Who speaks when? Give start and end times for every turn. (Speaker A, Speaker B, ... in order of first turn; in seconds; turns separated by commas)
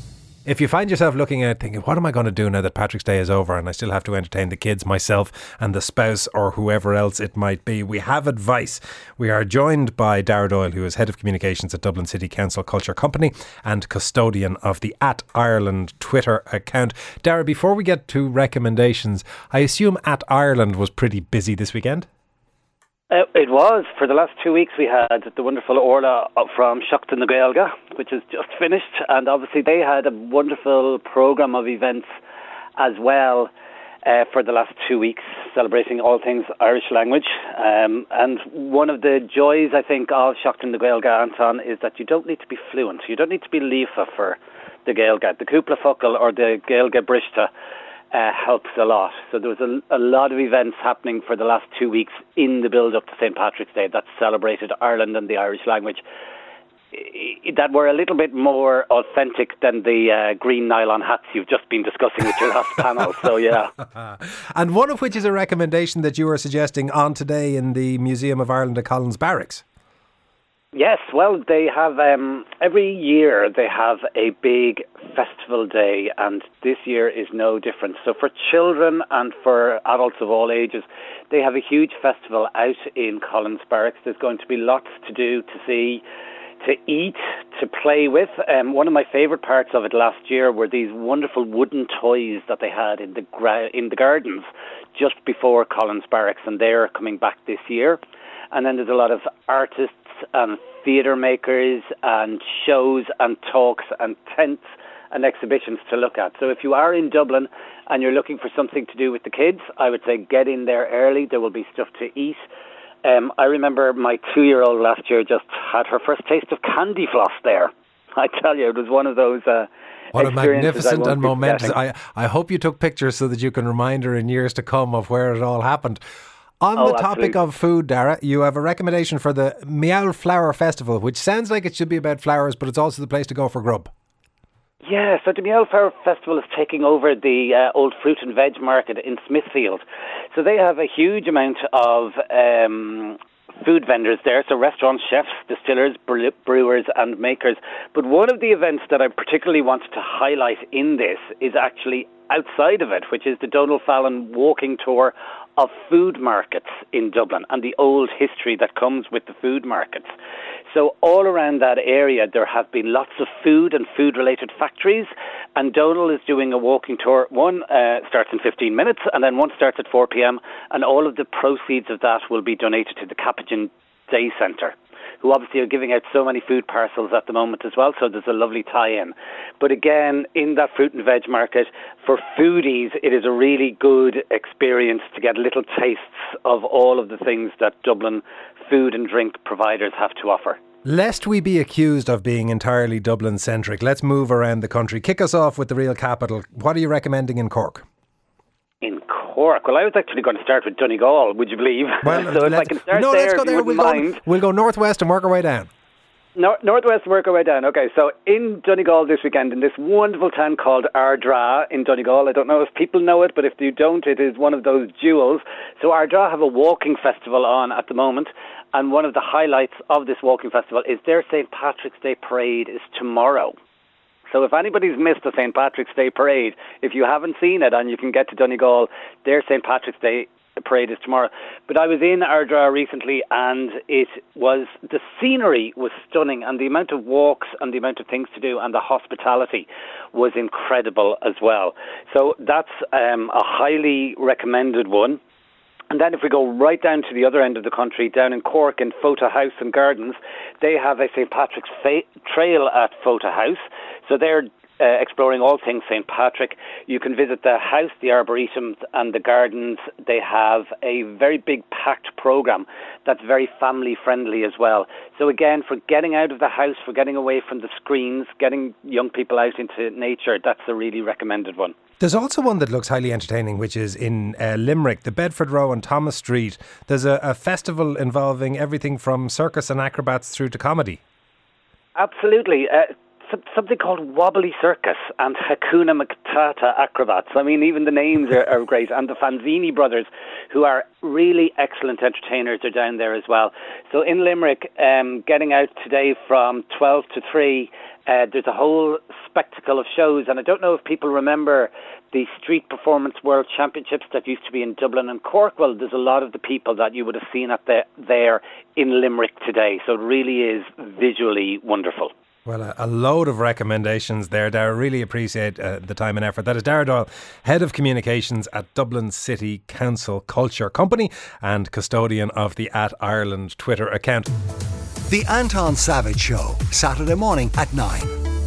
Speaker A: 0.5-22.1, Speaker B: 23.1-32.1, Speaker B: 32.8-33.5, Speaker B: 34.0-47.5, Speaker B: 48.1-56.0, Speaker B: 56.9-63.7, Speaker A: 64.0-69.6, Speaker B: 70.7-86.0, Speaker B: 86.6-98.0, Speaker B: 98.5-112.4, Speaker B: 113.0-121.8, Speaker A: 120.1-126.0, Speaker A: 126.6-133.9, Speaker B: 126.8-127.4, Speaker B: 134.8-160.1, Speaker B: 160.7-190.6, Speaker A: 190.8-197.8, Speaker B: 198.8-204.2, Speaker A: 202.0-205.7, Speaker B: 206.3-223.5, Speaker B: 224.3-245.2, Speaker B: 245.9-271.7, Speaker A: 272.0-281.0, Speaker B: 281.9-312.1, Speaker A: 312.4-324.3, Speaker C: 325.1-328.1